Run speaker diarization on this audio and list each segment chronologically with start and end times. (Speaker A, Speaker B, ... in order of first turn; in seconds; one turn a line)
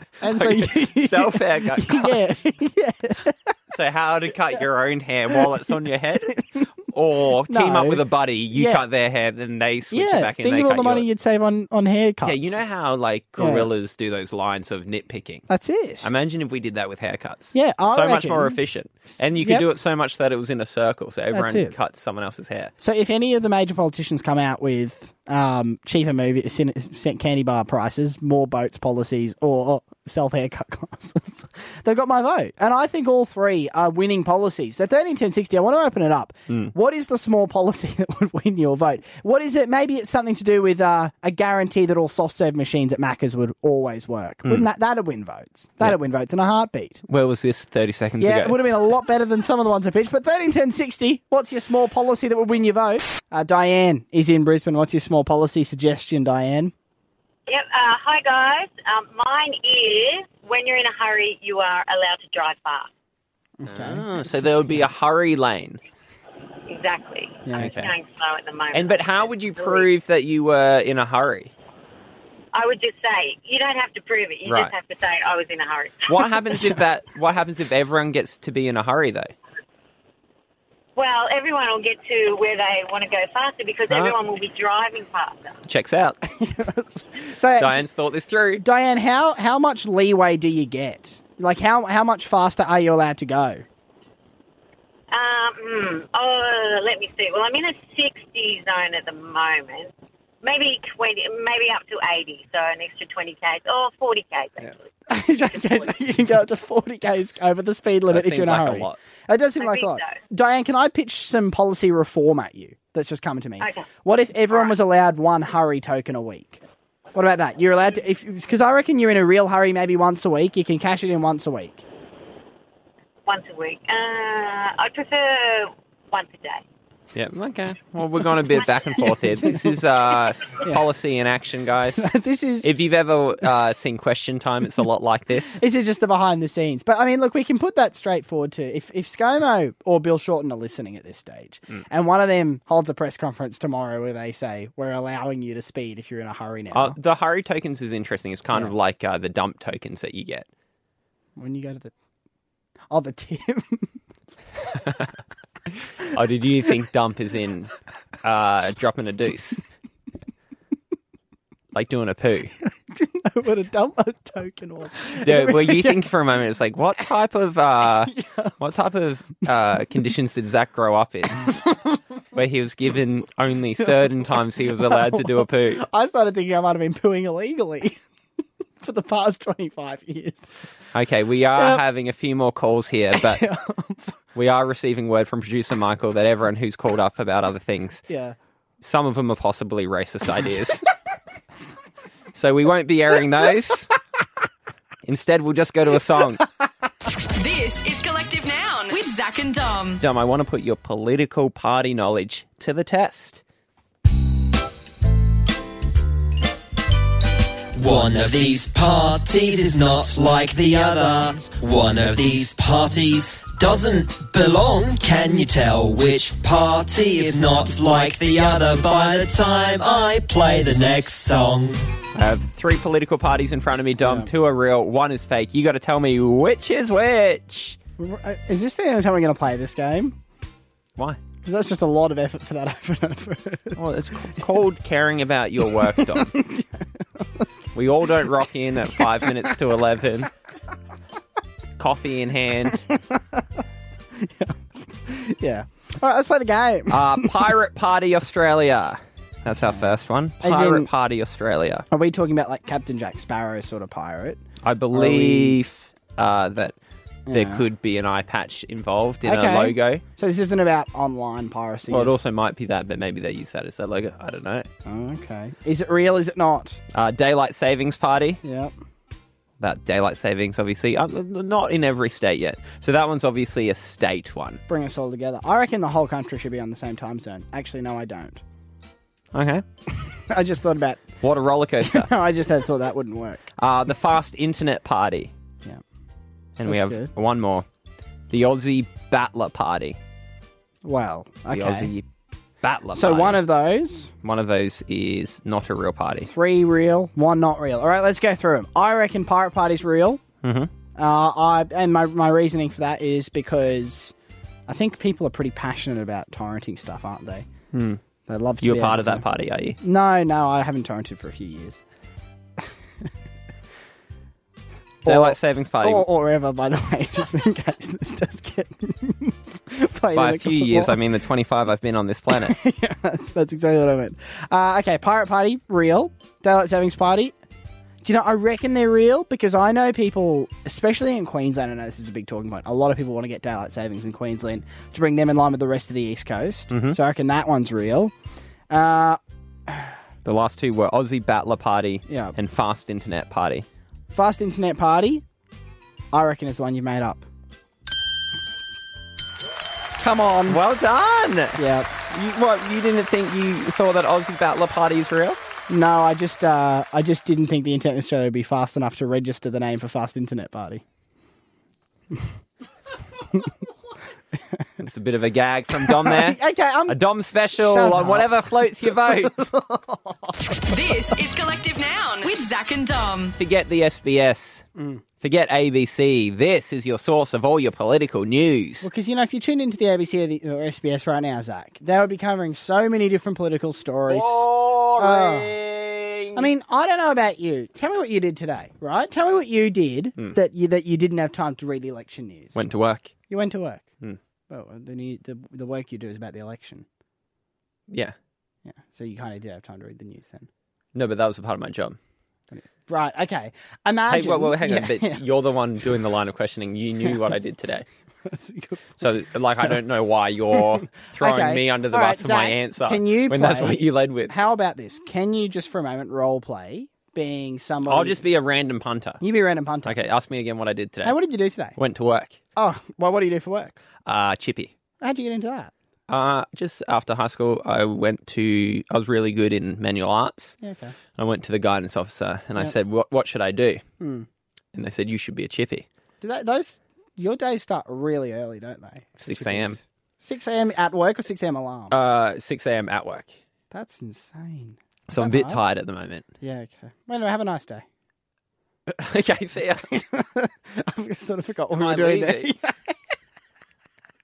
Speaker A: 0.2-3.5
Speaker B: 0.2-2.2
Speaker B: 3.7-11.1
Speaker A: 7.5-8.8
Speaker A: 9.9-12.6
Speaker B: 12.2-15.4
Speaker A: 13.4-13.7
Speaker A: 15.5-16.1
Speaker B: 16.0-22.7
Speaker A: 17.5-18.6
Speaker A: 19.4-19.7
Speaker A: 21.3-21.7
Speaker A: 22.8-47.0
Speaker B: 47.1-48.6
Speaker A: 48.2-56.7
Speaker C: 57.5-62.9
Speaker A: 63.6-64.8
Speaker B: 63.7-65.8
Speaker C: 66.7-69.9
Speaker A: 67.5-67.7
Speaker B: 67.5-67.9
Speaker B: 68.7-71.5
Speaker C: 72.5-76.2
Speaker B: 74.5-74.7
Speaker B: 76.1-79.3
Speaker C: 81.0-85.5
Speaker B: 83.9-84.2
Speaker B: 85.7-86.2
Speaker A: 86.4-87.8
Speaker B: 87.6-88.6
Speaker A: 88.6-93.6
Speaker C: 95.1-106.0
Speaker A: 105.1-116.6
Speaker B: 108.1-109.0
Speaker C: 109.6-110.2
Speaker C: 113.6-113.9
Speaker A: 117.2-121.8
Speaker C: 123.3-126.6
Speaker B: 127.2-132.1
Speaker A: 129.3-129.8
Speaker A: 132.0-132.7
Speaker B: 132.6-135.6
Speaker A: 135.5-147.0
Speaker B: 146.7-150.5
Speaker A: 151.4-151.9
Speaker A: 152.9-153.9
Speaker B: 154.8-155.1
Speaker B: 156.0-157.7
Speaker B: 158.2-159.6
Speaker B: 161.7-162.5
Speaker A: 162.9-166.1
Speaker B: 165.1-171.6
Speaker A: 168.1-168.5
Speaker B: 172.3-175.8
Speaker A: 174.8-178.0
Speaker A: 178.8-180.7
Speaker B: 180.9-183.4
Speaker A: 183.1-184.2
Speaker B: 184.3-188.0
Speaker A: 188.1-188.4
Speaker B: 188.8-190.8
Speaker B: 192.3-193.9
Speaker B: 195.1-196.4
Speaker D: 197.3-200.0
Speaker B: 200.0-203.4
Speaker E: 207.8-221.8
Speaker B: 222.2-227.8
Speaker A: 224.0-224.3
Speaker A: 228.0-230.2
Speaker A: 231.4-233.8
Speaker B: 233.8-236.3
Speaker A: 236.1-236.8
Speaker B: 237.7-240.3
Speaker B: 241.8-242.8
Speaker A: 242.7-243.4
Speaker A: 244.2-247.4
Speaker B: 246.9-251.8
Speaker A: 249.8-250.9
Speaker A: 251.9-255.6
Speaker B: 254.6-256.8
Speaker A: 257.3-257.7
Speaker B: 257.3-260.0
Speaker A: 259.2-262.1
Speaker B: 261.9-264.7
Speaker A: 264.9-266.8
Speaker B: 266.9-268.4
Speaker A: 268.4-268.7
Speaker B: 269.6-274.6
Speaker A: 274.7-278.4
Speaker B: 279.3-279.6
Speaker A: 280.3-281.2
Speaker B: 281.2-282.1
Speaker A: 281.8-283.5
Speaker B: 283.6-285.3
Speaker B: 286.6-287.6
Speaker A: 286.6-287.1
Speaker B: 288.3-290.0
Speaker A: 290.8-291.9
Speaker B: 291.5-292.0
Speaker B: 292.6-293.4
Speaker A: 292.9-294.1
Speaker B: 294.2-296.3
Speaker A: 296.3-300.2
Speaker B: 300.4-300.7
Speaker A: 300.9-304.1
Speaker A: 304.7-307.5
Speaker B: 307.7-308.0
Speaker A: 308.3-309.3
Speaker B: 308.6-309.8
Speaker A: 309.8-311.8
Speaker A: 312.6-313.1
Speaker B: 315.1-316.1
Speaker A: 315.1-321.0
Speaker B: 320.1-322.6
Speaker A: 322.3-327.3
Speaker A: 328.0-338.1
Speaker B: 336.7-337.0
Speaker A: 338.7-339.9
Speaker B: 340.2-343.7
Speaker A: 342.1-342.4
Speaker A: 344.1-345.2
Speaker A: 346.1-347.2
Speaker A: 350.0-350.6
Speaker B: 350.5-355.4
Speaker A: 351.6-351.9
Speaker A: 355.7-360.8
Speaker B: 364.8-369.5
Speaker A: 365.9-367.0
Speaker A: 367.6-370.3
Speaker D: 370.7-373.4
Speaker B: 373.4-374.6
Speaker A: 374.8-375.0
Speaker B: 375.2-378.9
Speaker A: 378.8-385.6
Speaker B: 384.1-386.5
Speaker A: 386.4-392.6
Speaker B: 392.6-393.2
Speaker A: 393.3-393.9
Speaker A: 394.5-396.9
Speaker B: 397.9-398.1
Speaker A: 398.7-400.5
Speaker B: 400.9-402.0
Speaker A: 402.5-405.2
Speaker B: 404.1-407.9
Speaker A: 408.2-409.0
Speaker B: 409.0-414.3
Speaker A: 411.1-418.2
Speaker B: 417.9-419.2
Speaker A: 419.2-420.0
Speaker B: 419.9-421.2
Speaker A: 421.0-421.8
Speaker B: 421.8-422.4
Speaker A: 422.6-423.8
Speaker B: 424.1-424.7
Speaker A: 425.0-425.7
Speaker B: 426.1-430.6
Speaker A: 430.6-430.9
Speaker B: 431.1-433.8
Speaker A: 434.0-434.3
Speaker B: 434.7-435.9
Speaker A: 436.2-442.0
Speaker B: 439.2-439.8
Speaker B: 441.9-443.3
Speaker A: 443.7-445.6
Speaker B: 445.1-446.3
Speaker A: 446.4-447.9
Speaker B: 448.9-450.0
Speaker A: 449.9-452.9
Speaker B: 451.7-452.5